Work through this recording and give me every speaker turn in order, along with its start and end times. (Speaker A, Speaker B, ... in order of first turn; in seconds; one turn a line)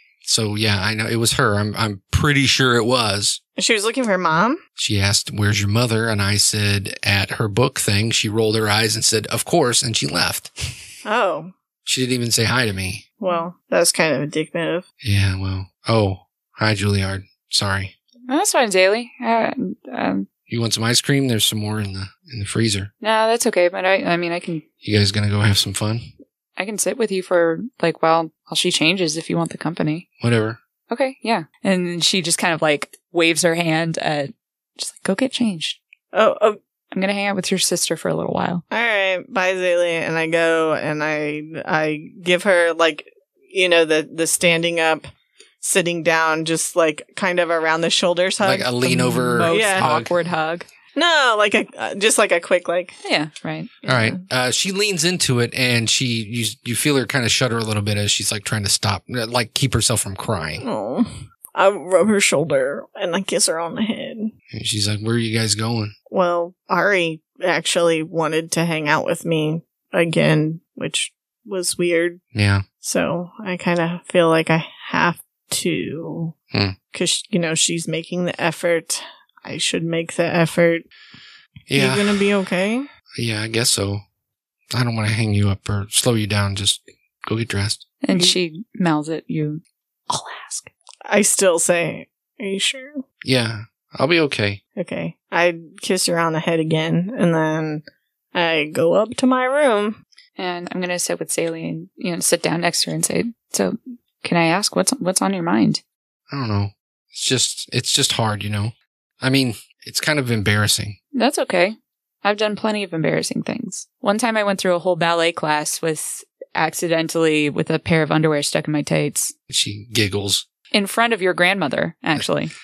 Speaker A: 0.2-3.4
Speaker B: 3.6-4.6
Speaker A: 4.8-10.5
Speaker B: 11.0-11.5
Speaker A: 11.8-13.0
Speaker B: 13.2-14.8
Speaker A: 15.0-17.9
Speaker C: 18.3-20.3
Speaker A: 20.5-22.9
Speaker C: 23.0-24.6
Speaker A: 24.8-26.1
Speaker C: 26.6-30.1
Speaker A: 30.2-30.6
Speaker C: 30.9-35.8
Speaker B: 36.1-36.6
Speaker C: 36.9-38.6
Speaker B: 38.7-45.1
Speaker B: 45.6-48.8
Speaker A: 48.4-50.1
Speaker C: 48.8-50.7
Speaker B: 49.4-49.9
Speaker B: 51.0-52.9
Speaker C: 53.0-53.7
Speaker B: 53.8-54.2
Speaker A: 53.9-60.6
Speaker B: 60.6-64.3
Speaker A: 64.5-65.9
Speaker B: 66.1-72.2
Speaker A: 72.3-72.6
Speaker B: 72.8-76.3
Speaker A: 76.5-76.8
Speaker B: 76.9-80.8
Speaker A: 81.7-82.2
Speaker B: 81.7-82.9
Speaker A: 83.2-84.0
Speaker A: 84.7-87.8
Speaker C: 88.0-90.7
Speaker B: 91.0-93.0
Speaker A: 93.2-94.6
Speaker B: 94.8-100.0
Speaker C: 100.4-105.8
Speaker A: 106.3-111.0
Speaker C: 111.1-119.3
Speaker A: 119.5-120.4
Speaker C: 120.7-122.5